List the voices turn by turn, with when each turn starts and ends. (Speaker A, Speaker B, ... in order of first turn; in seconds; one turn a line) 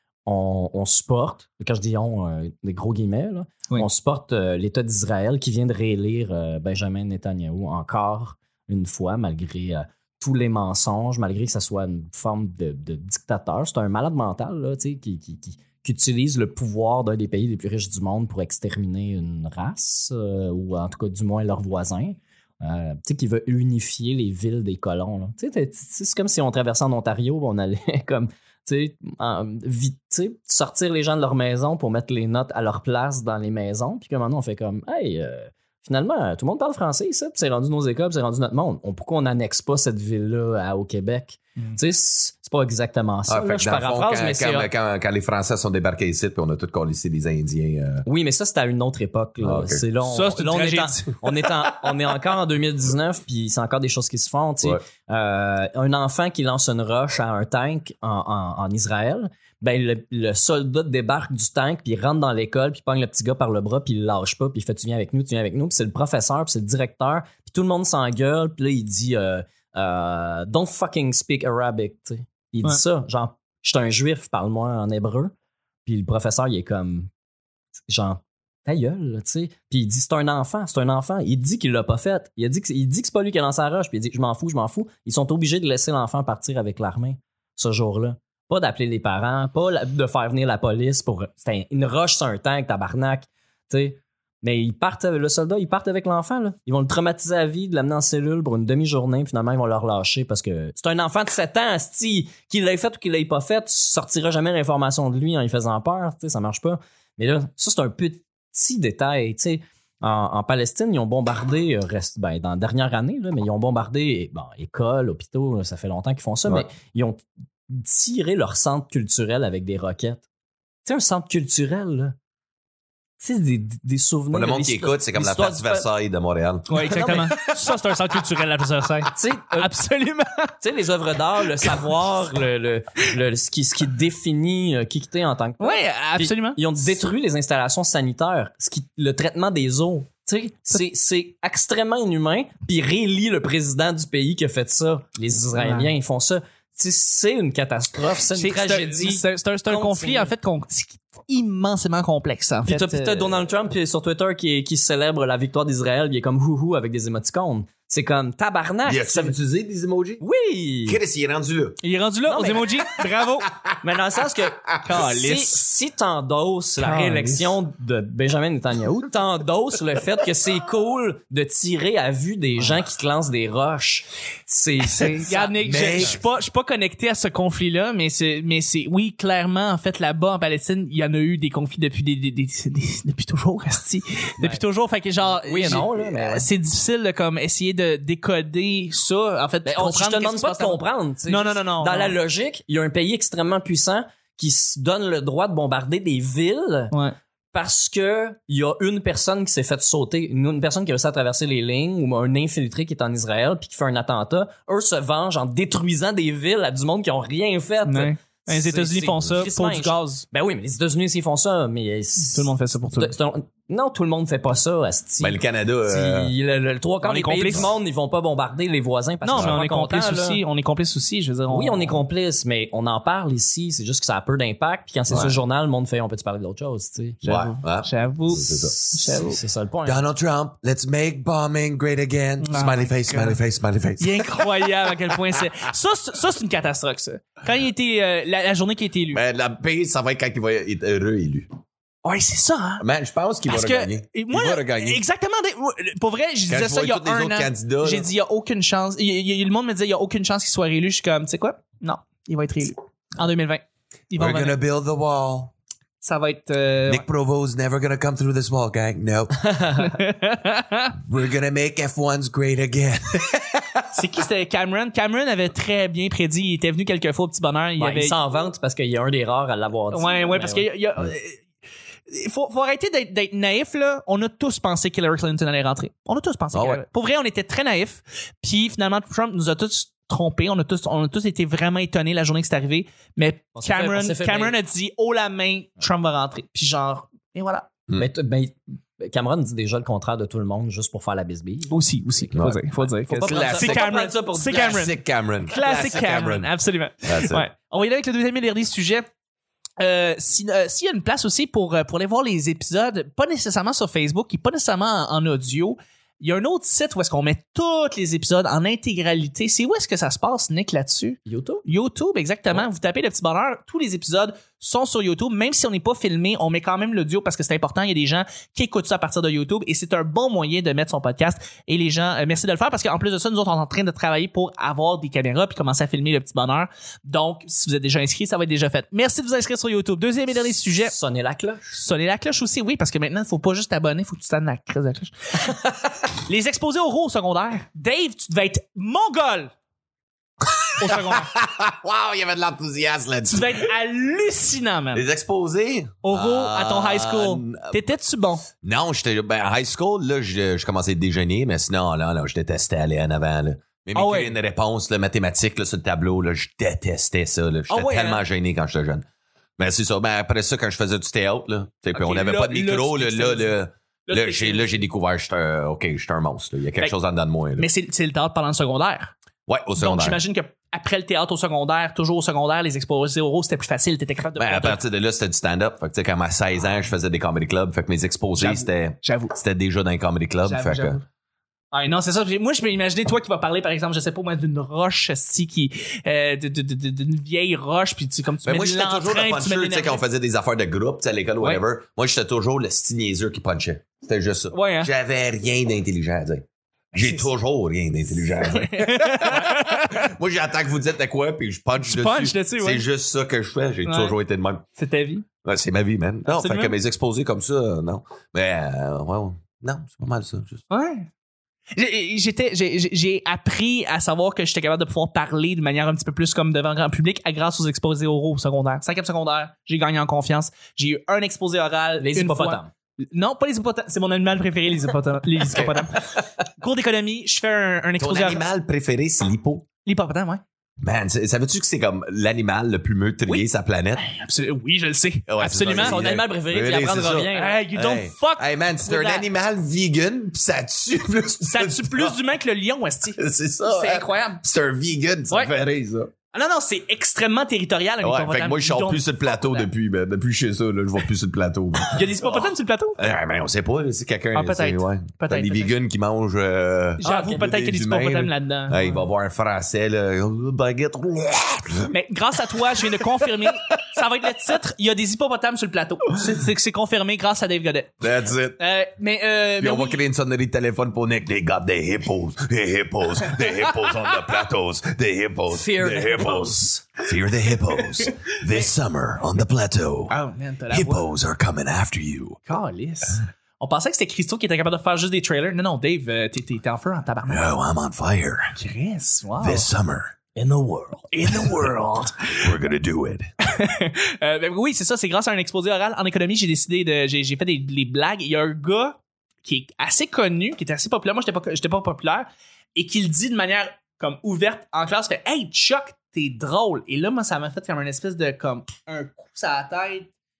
Speaker A: 0.2-44.7
Speaker B: 43.3-48.0
Speaker A: 48.0-75.3
Speaker B: 49.4-49.8
Speaker C: 50.1-51.1
Speaker A: 75.8-77.1
Speaker A: 77.9-120.2
Speaker A: 120.8-122.2
Speaker A: 123.2-125.9
Speaker B: 124.3-127.0
Speaker C: 126.7-130.5
Speaker A: 126.8-127.5
Speaker A: 129.1-129.7
Speaker A: 130.6-150.3
Speaker C: 135.6-136.6
Speaker C: 145.6-145.9
Speaker C: 148.3-153.3
Speaker A: 152.7-159.3
Speaker B: 158.9-160.2
Speaker A: 160.2-161.0
Speaker B: 160.8-161.8
Speaker C: 161.8-163.5
Speaker A: 162.3-162.7
Speaker B: 163.5-163.8
Speaker A: 163.8-176.2
Speaker C: 164.8-165.6
Speaker C: 166.8-167.6
Speaker C: 174.9-192.2
Speaker B: 175.6-176.2
Speaker A: 185.2-186.5
Speaker A: 189.6-196.9
Speaker C: 196.9-197.2
Speaker A: 197.5-220.4
Speaker C: 207.8-210.2
Speaker C: 212.3-213.1
Speaker B: 215.2-216.3
Speaker C: 217.0-217.7
Speaker C: 219.2-222.0
Speaker A: 221.5-227.2
Speaker B: 225.1-225.3
Speaker B: 227.2-228.8
Speaker C: 227.2-229.4
Speaker A: 228.4-230.0
Speaker B: 229.8-235.2
Speaker C: 232.4-233.4
Speaker C: 234.0-239.2
Speaker B: 239.1-241.5
Speaker C: 242.0-242.8
Speaker B: 242.8-245.0
Speaker C: 243.5-254.6
Speaker B: 246.5-248.1
Speaker B: 254.2-255.5
Speaker C: 256.0-257.0
Speaker B: 256.9-259.5
Speaker A: 259.4-259.9
Speaker C: 259.8-260.9
Speaker B: 261.0-263.9
Speaker C: 263.9-268.2
Speaker A: 267.8-270.7
Speaker C: 269.9-271.5
Speaker C: 272.1-287.7
Speaker B: 276.5-276.8
Speaker A: 283.5-284.6
Speaker A: 288.0-292.3
Speaker C: 291.7-299.1
Speaker B: 292.3-297.4
Speaker A: 293.0-294.8
Speaker C: 299.8-330.9
Speaker A: 311.2-311.6
Speaker A: 330.8-331.7
Speaker C: 331.7-335.6
Speaker C: 336.2-339.5
Speaker B: 340.4-343.7
Speaker C: 340.8-341.3
Speaker C: 343.3-345.0
Speaker B: 344.9-347.8
Speaker C: 346.0-348.4
Speaker B: 348.6-359.0
Speaker C: 353.9-354.3
Speaker C: 357.7-358.2
Speaker B: 359.6-367.7
Speaker C: 361.9-363.5
Speaker C: 364.1-364.8
Speaker C: 367.6-369.1
Speaker B: 369.5-370.2
Speaker C: 369.8-374.8
Speaker B: 374.4-381.0
Speaker C: 378.4-379.3
Speaker C: 380.4-381.0
Speaker C: 381.7-390.0
Speaker B: 388.4-404.6
Speaker C: 394.5-394.9
Speaker C: 397.0-397.3
Speaker C: 398.4-400.1
Speaker C: 401.8-402.8
Speaker C: 403.8-404.1
Speaker C: 404.8-405.2
Speaker B: 405.4-410.6
Speaker C: 406.3-406.7
Speaker C: 410.7-411.1
Speaker C: 411.7-428.4
Speaker A: 422.0-422.7
Speaker B: 425.6-425.8
Speaker B: 428.0-429.6
Speaker C: 429.8-430.4
Speaker B: 430.8-434.0
Speaker C: 434.0-436.0
Speaker B: 435.3-442.1
Speaker A: 435.7-437.6
Speaker C: 437.3-439.2
Speaker C: 441.5-444.4
Speaker B: 443.2-446.1
Speaker C: 446.3-449.7
Speaker B: 448.0-461.9
Speaker C: 451.8-453.0
Speaker C: 454.3-455.7
Speaker C: 457.0-459.0
Speaker A: 457.0-457.4
Speaker C: 461.9-468.0
Speaker B: 462.7-463.9
Speaker B: 468.0-468.6
Speaker C: 468.6-470.0
Speaker B: 469.6-480.1
Speaker A: 475.5-476.8
Speaker C: 480.1-481.0
Speaker B: 480.7-482.4
Speaker C: 482.4-487.4
Speaker B: 487.3-488.6
Speaker C: 488.6-489.7
Speaker B: 489.4-490.3
Speaker A: 490.4-491.1
Speaker C: 491.1-492.4
Speaker B: 491.3-491.7
Speaker B: 492.3-493.3
Speaker C: 493.4-510.1